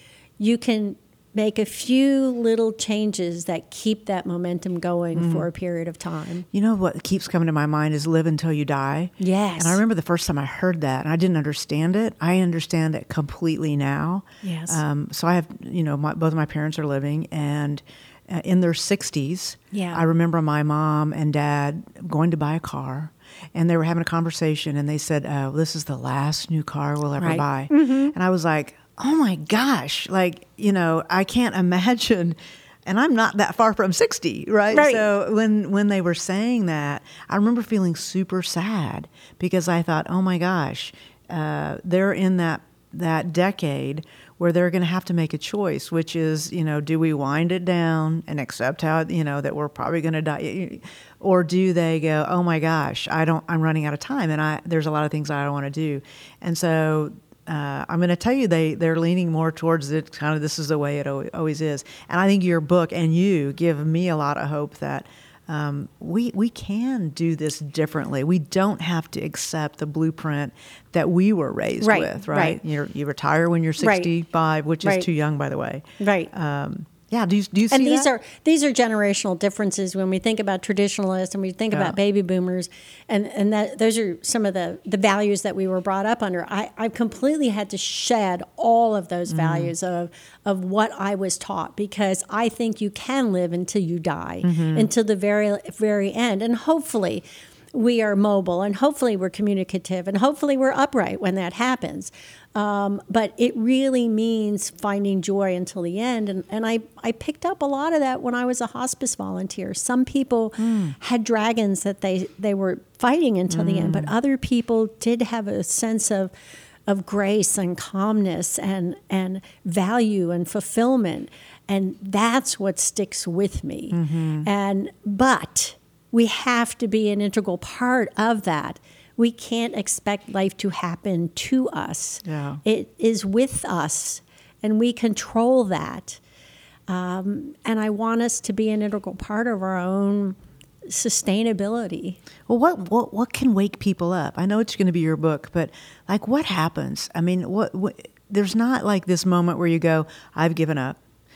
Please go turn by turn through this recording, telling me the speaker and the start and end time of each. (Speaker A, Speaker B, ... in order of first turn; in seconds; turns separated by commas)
Speaker A: 0.4-6.5, Speaker B: 5.1-5.5, Speaker B: 6.5-78.1, Speaker A: 9.2-9.8, Speaker A: 14.4-14.8, Speaker A: 19.7-20.0, Speaker A: 27.2-28.1, Speaker A: 34.7-35.1, Speaker A: 71.8-72.6, Speaker A: 73.8-74.1, Speaker A: 76.0-76.3, Speaker A: 77.7-116.3, Speaker B: 89.3-89.7, Speaker B: 94.4-94.9, Speaker B: 110.6-110.9, Speaker B: 113.5-114.1, Speaker A: 116.9-136.2, Speaker B: 123.9-124.5, Speaker B: 132.2-132.6, Speaker A: 136.9-142.2, Speaker B: 142.5-151.0